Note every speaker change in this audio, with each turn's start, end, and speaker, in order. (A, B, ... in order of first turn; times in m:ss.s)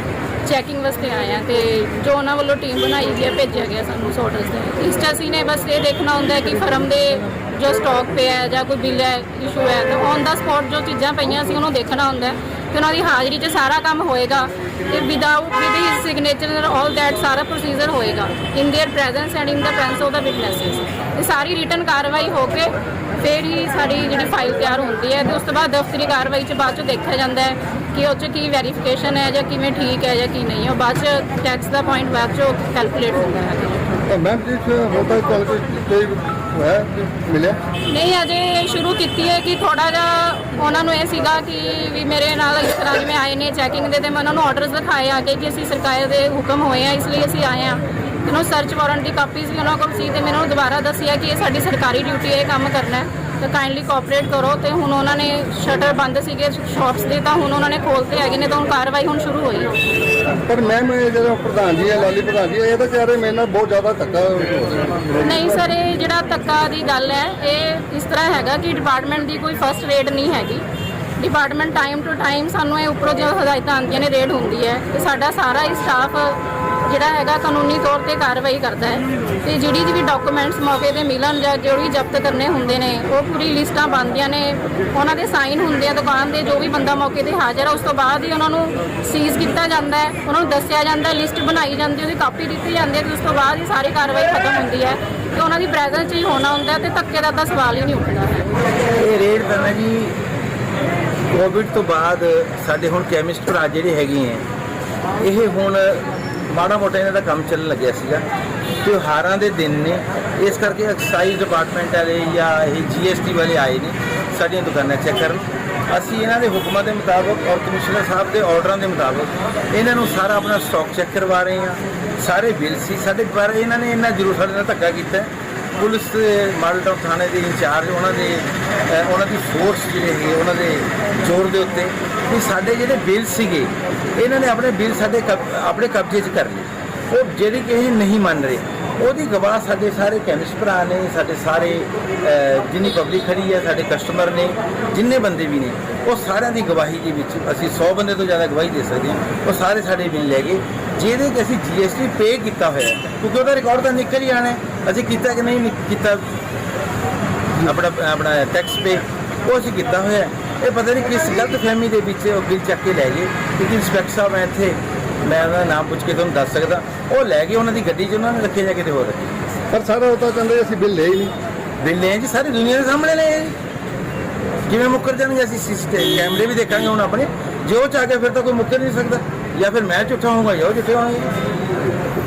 0:00.4-0:33.8 A
0:34.1-0:37.6 B
0:37.9-0:59.7 A
1:00.4-1:05.2 B
1:05.2-1:10.6 A
1:11.2-1:38.5 A
1:39.0-1:40.2 C
1:41.3-1:44.4 C
1:45.2-1:48.2 C
1:48.8-2:36.3 C
2:37.6-2:49.3 C
2:49.7-2:51.4 B
2:51.8-2:53.6 C
2:54.7-3:01.3 C